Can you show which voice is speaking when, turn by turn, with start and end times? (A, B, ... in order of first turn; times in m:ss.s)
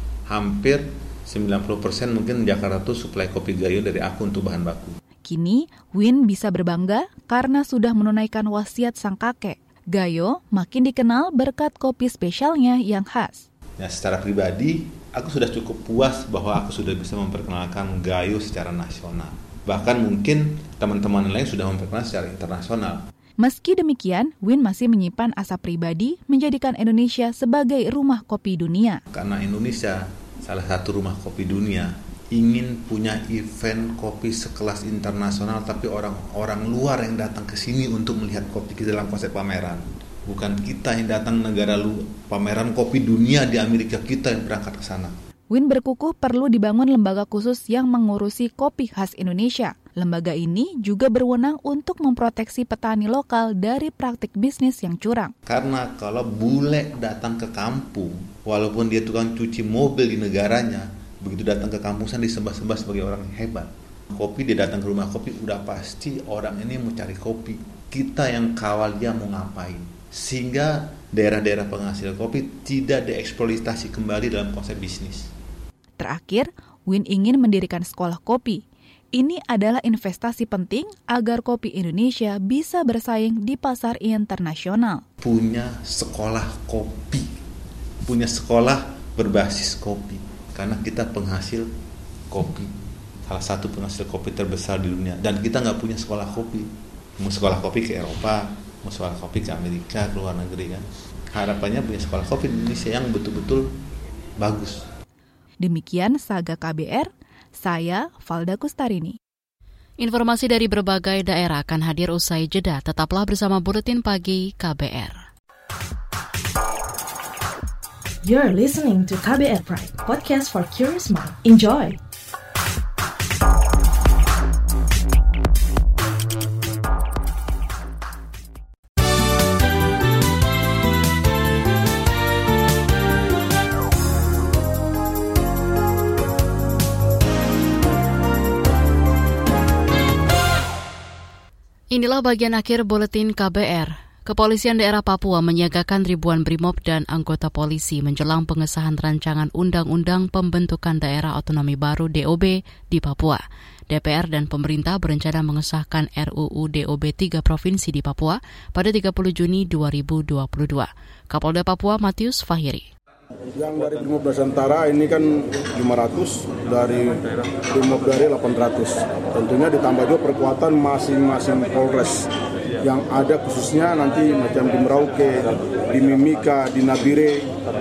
0:00.3-0:05.0 A
0:05.2-0:13.4 B
0:13.8-0:23.0 A
0:23.4-0:29.0 B
0:29.1-0:45.1 A
0:45.5-0:55.3 B
0:55.4-1:15.3 A
1:16.0-1:18.6 B
1:19.1-1:25.0 B
1:25.2-1:27.3 A
1:28.0-1:31.7 A
1:32.3-1:32.7 A
1:33.3-1:36.7 A
1:37.2-1:43.7 A
1:44.4-1:44.8 A
1:45.6-1:49.2 B
1:50.0-1:55.2 C
1:58.2-2:02.0 D
2:21.9-2:42.9 C
2:43.6-2:52.3 E
2:52.8-2:57.4 E